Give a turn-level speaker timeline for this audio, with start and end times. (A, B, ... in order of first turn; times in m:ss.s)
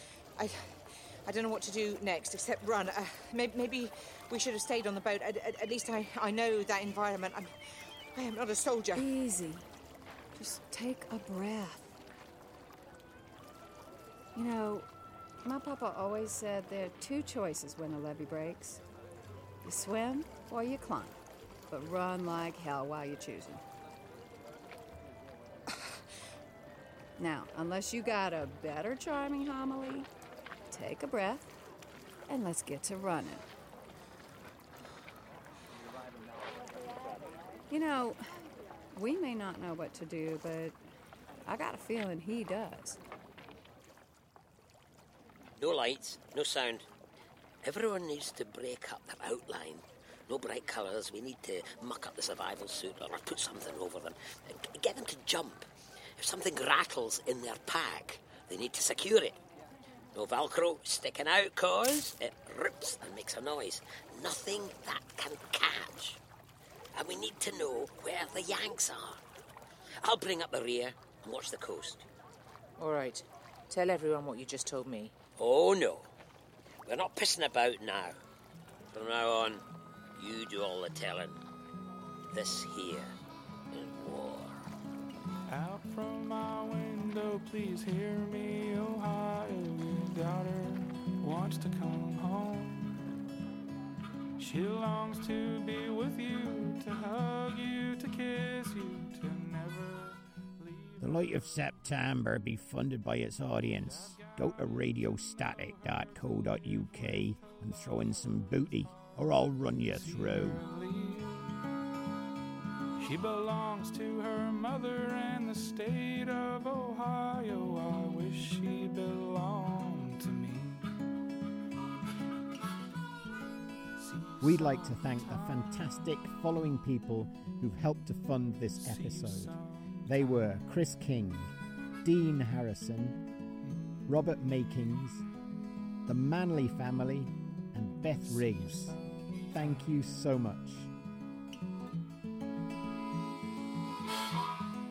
0:00.4-0:07.5 A
0:08.1-0:09.1 A
0:08.9-0:09.7 B
0:10.3-0:12.0 B
0:14.3-0:14.9 B
0:15.4-0:18.8 B
0:19.6-0:21.2 B
0:21.7-0:23.6 B
0:27.2-0:30.1 B
0:30.7-0:31.5 B
0:32.3-0:33.4 B
0:37.7-0:38.2 B
0:38.9-0:40.8 B
0:41.4-0:43.0 B
0:45.6-0:46.8 C
0:47.6-0:59.4 C
1:00.1-1:06.2 C
1:06.9-1:09.2 C
1:10.0-1:12.0 C
1:12.8-1:15.1 A
1:15.4-1:16.1 C
1:16.8-1:18.2 C
1:18.9-1:19.6 C
1:20.2-1:21.4 C
1:22.3-1:23.1 C
1:23.7-1:24.6 C
1:25.5-1:33.0 D
1:34.4-1:41.2 D
1:41.0-1:50.6 E
1:49.9-1:51.4 D
1:53.0-2:00.8 D
2:04.0-2:05.8 D
2:04.4-2:13.2 E
2:08.8-2:10.4 D
2:14.1-2:15.3 E
2:16.1-2:19.0 E
2:19.5-2:20.9 E